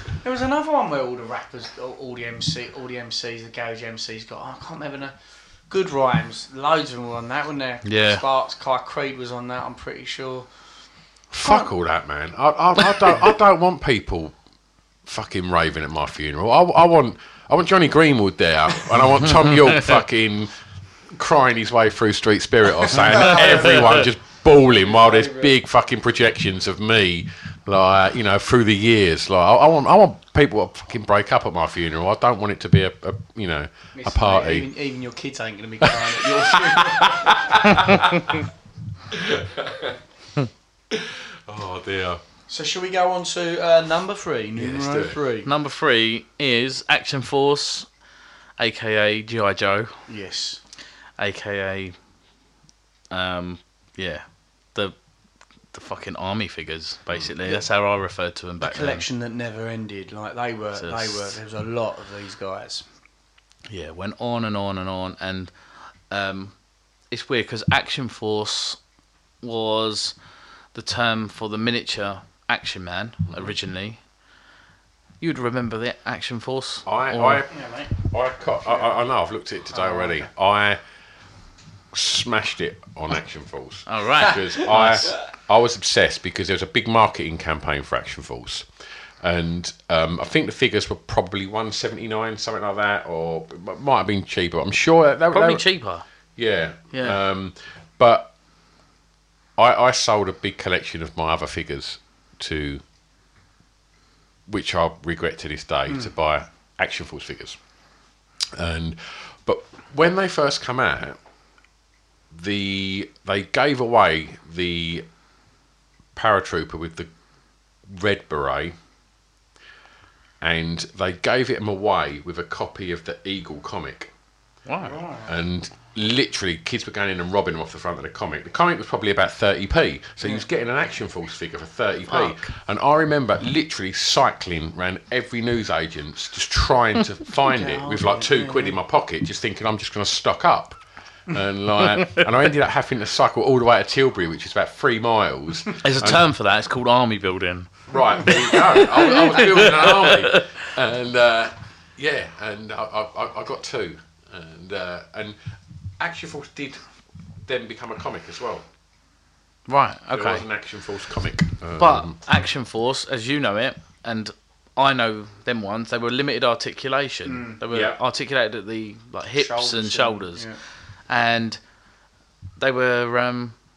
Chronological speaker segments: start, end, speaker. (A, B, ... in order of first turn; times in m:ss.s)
0:00.2-0:05.1 A
0:05.7-0:10.5 A
0:07.8-0:08.2 B
0:11.3-0:14.3 C
0:11.4-0:11.7 A
0:15.0-0:20.5 C
0:19.2-0:20.0 B
0:21.1-0:34.7 C
0:22.9-0:25.5 A
0:23.3-0:24.0 B
0:33.9-0:37.9 A
0:35.9-0:38.4 C
0:39.1-0:40.0 C
0:40.9-0:42.2 C
0:42.5-0:45.5 A
0:44.5-0:45.2 C
0:45.4-0:47.9 B
0:48.6-0:49.9 B
0:50.1-0:50.6 A
0:51.2-0:51.9 B
0:53.1-0:54.2 B
0:55.7-0:59.0 B
0:58.6-1:02.8 A
1:00.7-1:01.4 B
1:03.7-1:05.5 B
1:06.1-1:06.5 B
1:07.1-1:08.8 B
1:09.4-1:10.1 B
1:10.7-1:14.0 B
1:13.3-1:13.6 C
1:15.2-1:17.4 B
1:16.8-1:20.8 C
1:17.5-1:17.9 A
1:18.6-1:18.9 A
1:19.7-1:20.2 A
1:21.9-1:28.7 C
1:23.9-1:25.1 B
1:29.2-1:35.6 C
1:35.3-1:36.0 B
1:36.4-1:38.3 C
1:36.9-1:37.2 B
1:39.6-1:42.8 C
1:44.5-1:47.6 C
1:48.5-1:51.2 C
1:52.3-1:55.0 C
1:56.1-1:57.1 C
1:57.9-1:58.7 C
2:00.4-2:04.1 C
2:04.7-2:05.0 B
2:04.8-2:05.4 A
2:05.2-2:26.2 C
2:12.1-2:12.5 B
2:17.4-2:18.8 A
2:21.8-2:22.3 B
2:25.8-2:30.5 B
2:27.9-2:35.4 C
2:36.0-2:36.8 C
2:37.4-2:38.6 C
2:39.7-2:40.4 B
2:40.1-2:42.2 C
2:41.8-2:50.6 B
2:47.2-2:47.6 A
2:47.7-2:48.0 C
2:49.4-2:50.6 A
2:51.1-2:51.6 B
2:52.6-2:53.5 B